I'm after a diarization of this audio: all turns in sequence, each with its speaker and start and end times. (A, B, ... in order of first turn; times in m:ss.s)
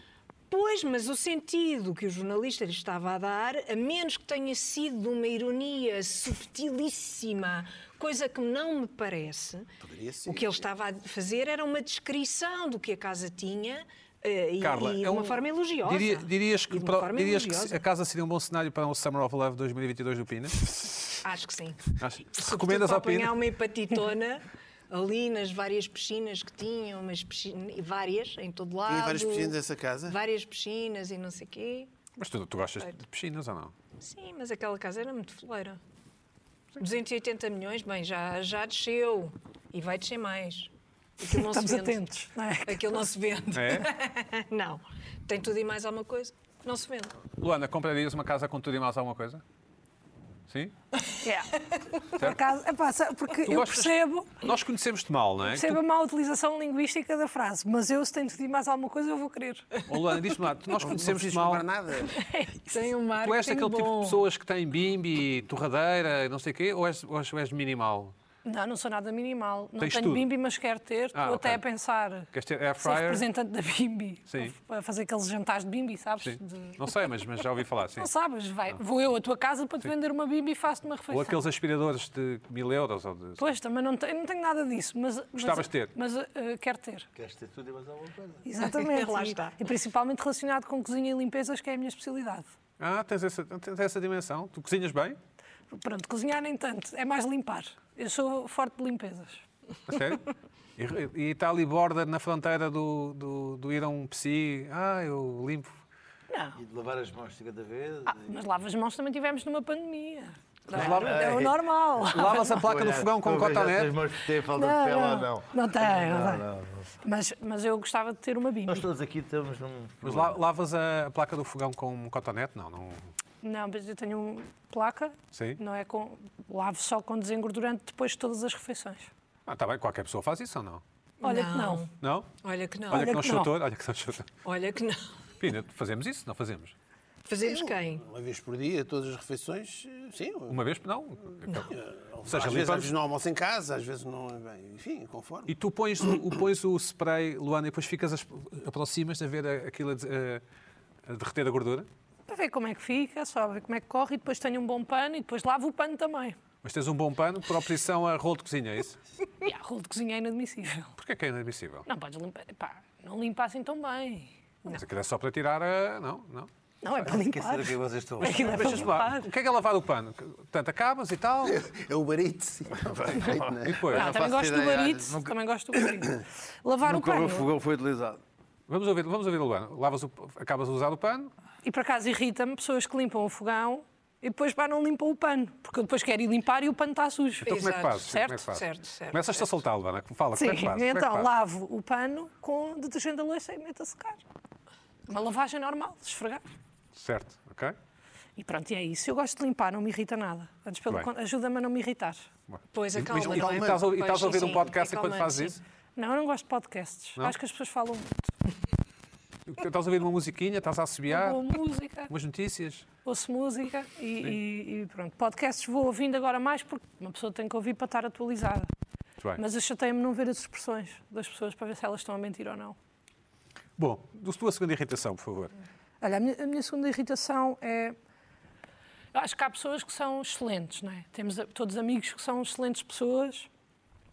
0:00.5-0:09.7 A
0:09.8-0:10.6 B
0:10.2-0:17.8 A
0:14.6-0:20.7 C
0:21.2-0:29.6 A
0:22.0-0:23.3 C
0:28.9-0:30.2 B
0:30.1-0:31.9 A
0:32.2-0:33.7 C
0:34.0-0:35.8 A
0:36.8-0:42.0 A
0:41.3-0:43.0 D
0:42.6-0:47.2 A
0:43.5-0:43.9 C
0:47.4-0:49.4 C
0:51.2-0:54.4 D
0:53.4-0:55.8 C
0:55.4-0:59.9 D
0:59.8-1:01.6 C
1:00.8-1:02.1 B
1:02.0-1:02.8 D
1:02.7-1:04.2 A
1:03.2-1:08.1 C
1:08.4-1:12.3 D
1:09.8-1:10.3 C
1:11.1-1:11.6 C
1:12.3-1:13.2 C
1:12.8-1:16.8 D
1:14.3-1:14.5 C
1:16.2-1:18.1 C
1:18.0-1:21.4 D
1:21.1-1:23.5 C
1:23.4-1:27.1 D
1:25.4-1:25.9 C
1:27.2-1:28.5 E
1:28.4-1:32.5 D
1:28.6-1:29.6 A
1:32.8-1:35.2 C
1:35.7-1:39.4 D
1:39.9-1:40.2 C
1:40.8-1:45.8 C
1:46.3-1:46.6 D
1:46.5-1:48.3 E
1:48.1-1:52.5 D
1:50.7-1:51.2 A
1:50.7-1:51.2 C
1:50.7-1:56.9 E
1:52.1-1:53.9 C
1:54.5-1:56.4 D
1:57.0-1:58.8 D
1:58.6-2:00.4 E
2:00.0-2:03.0 C
2:03.4-2:09.1 D
2:05.3-2:05.6 C
2:09.5-2:10.8 C
2:11.2-2:11.9 A
2:11.2-2:11.9 D
2:12.0-2:12.3 C
2:12.4-2:13.1 A
2:12.9-2:13.5 D
2:12.9-2:14.3 C
2:14.4-2:15.1 A
2:15.4-2:16.7 C
2:17.3-2:18.0 A
2:17.5-2:20.6 B
2:20.5-2:21.7 C
2:21.7-2:25.5 B
2:22.2-2:22.9 C
2:25.5-2:30.4 C
2:31.1-2:31.9 C
2:32.3-2:36.4 D
2:36.6-2:39.0 C
2:39.4-2:40.9 D
2:41.0-2:41.9 C
2:41.9-2:44.3 D
2:44.7-2:46.5 C
2:46.8-2:49.3 D
2:47.0-2:48.9 E
2:48.2-2:51.6 C
2:51.4-2:53.8 B
2:53.0-2:54.1 C
2:53.1-2:55.4 E
2:53.9-2:57.5 D
2:56.8-2:58.2 E
2:58.7-3:01.3 C
3:01.6-3:08.4 D
3:07.4-3:11.3 C
3:07.4-3:09.5 A
3:10.4-3:14.2 D
3:15.1-3:16.4 D
3:16.9-3:17.7 C
3:18.4-3:22.3 D
3:22.5-3:25.6 C
3:22.7-3:25.6 A
3:23.1-3:23.8 B
3:26.0-3:28.1 D
3:29.5-3:31.4 C
3:31.1-3:32.1 D
3:32.1-3:32.8 C
3:33.0-3:38.7 D
3:39.4-3:42.8 D
3:43.8-3:45.5 C
3:46.0-3:47.9 D
3:49.1-3:53.5 D